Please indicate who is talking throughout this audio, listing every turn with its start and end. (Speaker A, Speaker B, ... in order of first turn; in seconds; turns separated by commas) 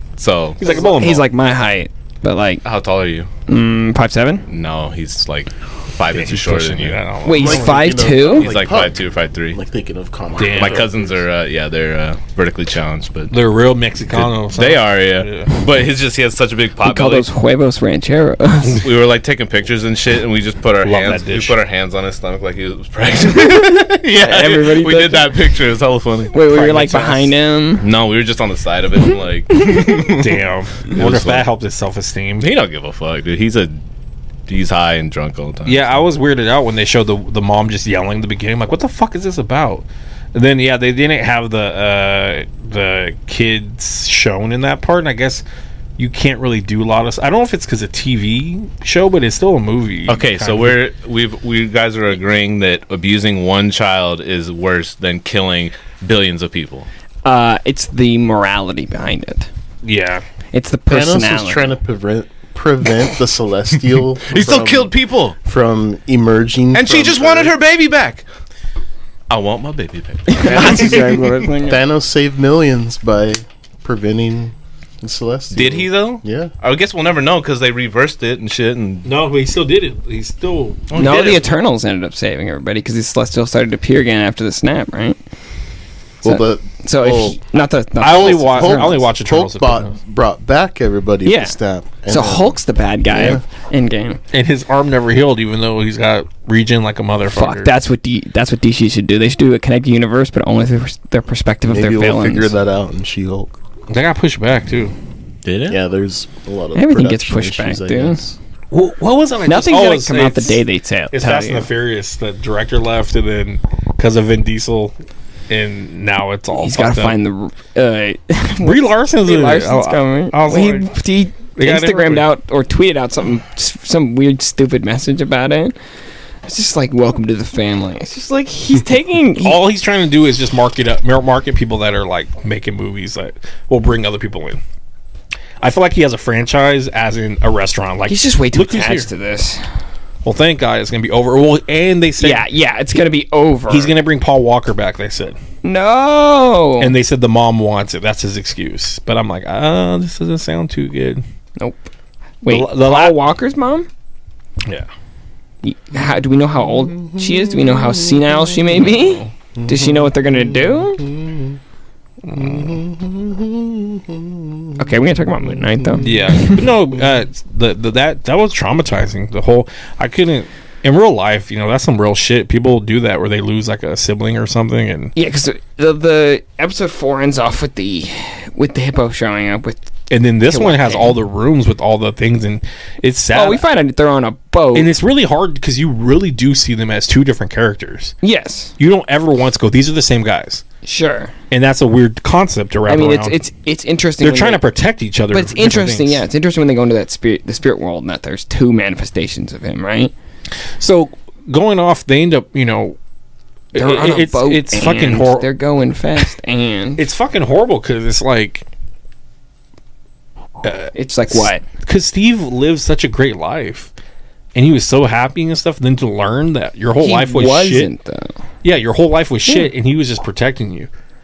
Speaker A: 0.2-0.8, Speaker B: 0.6-1.3, Speaker C: 0.6-2.6, Speaker A: 2.6-3.3, Speaker C: 3.5-4.5, Speaker A: 4.5-7.0, Speaker B: 6.1-7.9, Speaker C: 7.2-8.5, Speaker D: 7.3-11.1, Speaker A: 8.1-9.6, Speaker B: 10.4-10.9, Speaker A: 10.4-13.3, Speaker B: 13.3-15.5, Speaker A: 14.1-17.3, Speaker C: 16.8-18.9, Speaker A: 18.7-26.9, Speaker B: 20.8-21.6, Speaker C: 23.4-25.6, Speaker C: 26.3-27.8, Speaker B: 26.5-27.2, Speaker A: 27.8-30.4, Speaker B: 30.0-32.5, Speaker A: 30.9-31.5, Speaker A: 32.4-33.8, Speaker A: 34.5-35.9, Speaker B: 35.6-45.4, Speaker B: 46.0-50.8, Speaker A: 50.1-56.9, Speaker C: 57.2-59.5, Speaker B: 59.8-60.2, Speaker C: 60.5-61.7, Speaker D: 60.9-67.5, Speaker A: 64.3-65.4, Speaker A: 66.7-68.2, Speaker A: 69.3-71.3, Speaker C: 70.3-71.8, Speaker D: 70.4-76.5, Speaker A: 75.5-79.1, Speaker B: 79.0-80.9, Speaker A: 80.9-81.5, Speaker C: 80.9-85.2, Speaker C: 86.2-89.0, Speaker D: 86.2-87.4, Speaker B: 88.0-90.0, Speaker D: 88.0-92.6, Speaker C: 91.2-94.2, Speaker D: 93.1-93.4, Speaker B: 94.3-97.7, Speaker C: 97.3-102.5, Speaker D: 101.6-103.5, Speaker B: 103.9-104.9, Speaker A: 105.4-105.8, Speaker D: 105.7-108.4, Speaker C: 106.7-108.2, Speaker B: 108.7-110.6, Speaker C: 109.5-111.7, Speaker B: 111.1-114.9, Speaker B: 115.5-117.2, Speaker C: 116.5-125.7, Speaker B: 118.6-120.9, Speaker B: 121.5-122.3, Speaker C: 126.4-129.6, Speaker B: 129.4-134.6, Speaker B: 135.6-139.1, Speaker C: 138.1-139.7, Speaker B: 140.2-142.4, Speaker C: 142.2-143.9, Speaker B: 143.7-145.4, Speaker C: 145.6-146.9, Speaker B: 146.8-151.2, Speaker C: 151.6-151.9, Speaker C: 152.4-153.9, Speaker B: 152.5-153.2, Speaker C: 155.6-161.1, Speaker D: 157.1-158.3, Speaker B: 158.9-159.3, Speaker D: 159.6-161.6, Speaker B: 162.2-162.8, Speaker D: 162.4-164.9, Speaker C: 164.8-166.7, Speaker D: 165.5-166.0, Speaker B: 166.0-175.1, Speaker C: 175.2-181.2, Speaker B: 180.1-183.6, Speaker C: 183.3-184.9, Speaker B: 184.7-188.1, Speaker C: 188.2-188.7, Speaker B: 188.8-190.6, Speaker C: 190.8-191.3, Speaker B: 191.5-193.4, Speaker C: 192.9-194.6, Speaker B: 194.2-196.2, Speaker C: 195.3-200.1, Speaker B: 200.8-203.0, Speaker B: 203.7-205.5, Speaker C: 203.7-207.0, Speaker B: 207.0-208.6, Speaker B: 210.6-213.9, Speaker C: 210.9-211.6, Speaker B: 214.5-217.9, Speaker C: 217.0-218.4, Speaker B: 218.6-220.9